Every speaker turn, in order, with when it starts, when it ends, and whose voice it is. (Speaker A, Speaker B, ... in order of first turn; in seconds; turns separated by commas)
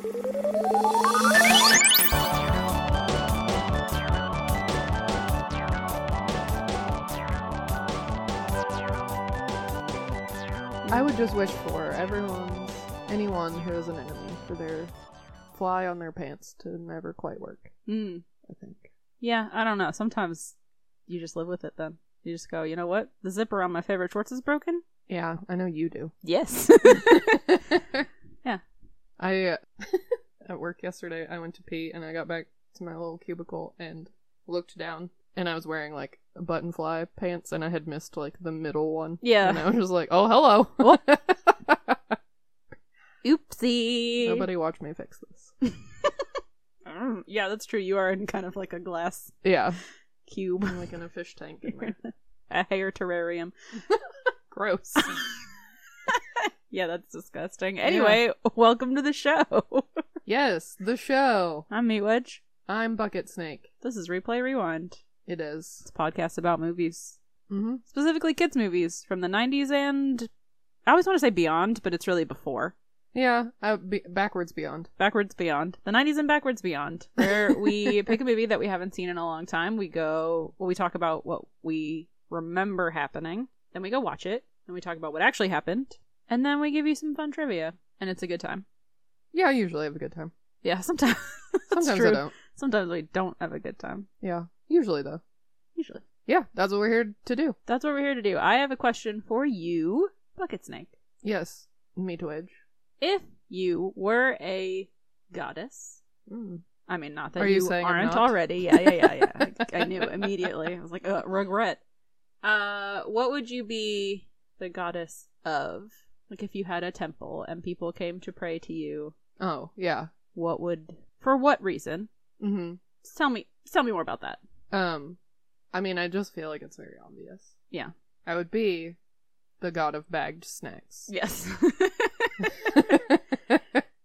Speaker A: 10.9-14.9, Speaker A: 15.5-17.7, Speaker B: 17.9-18.2, Speaker A: 18.4-18.9, Speaker B: 19.2-20.5, Speaker B: 21.1-24.8, Speaker A: 25.1-26.1, Speaker B: 26.2-27.4, Speaker A: 26.8-28.1, Speaker A: 29.2-42.1, Speaker B: 39.2-39.7, Speaker B: 43.2-44.5, Speaker A: 44.2-45.5, Speaker B: 45.6-46.1, Speaker B: 46.8-49.4, Speaker A: 49.4-49.8, Speaker B: 50.3-50.8, Speaker A: 50.6-51.9, Speaker B: 51.7-53.5, Speaker A: 54.5-55.1, Speaker B: 55.0-55.4, Speaker B: 56.1-60.0, Speaker A: 57.8-58.2, Speaker A: 60.2-61.7, Speaker B: 61.7-62.4, Speaker A: 62.6-63.7, Speaker B: 63.8-65.0, Speaker A: 65.2-65.8, Speaker B: 65.8-67.2, Speaker A: 67.5-67.8, Speaker B: 67.9-70.3, Speaker B: 70.8-72.7, Speaker A: 73.1-74.9, Speaker B: 75.0-88.6, Speaker A: 77.2-78.0, Speaker A: 89.3-90.3, Speaker B: 90.6-94.1, Speaker A: 91.7-92.3, Speaker A: 94.2-95.2, Speaker B: 95.8-96.0, Speaker A: 96.2-97.6, Speaker B: 97.7-101.0, Speaker A: 101.2-102.6, Speaker B: 103.0-106.0, Speaker A: 106.3-106.6, Speaker B: 106.9-111.8, Speaker A: 107.4-110.1, Speaker B: 112.4-119.1, Speaker A: 119.4-120.1, Speaker B: 120.3-122.1, Speaker A: 122.4-122.8, Speaker B: 123.0-124.4, Speaker A: 124.7-125.2, Speaker A: 125.7-127.5, Speaker A: 128.2-129.0, Speaker A: 129.6-131.1, Speaker B: 131.1-132.8, Speaker A: 132.6-133.8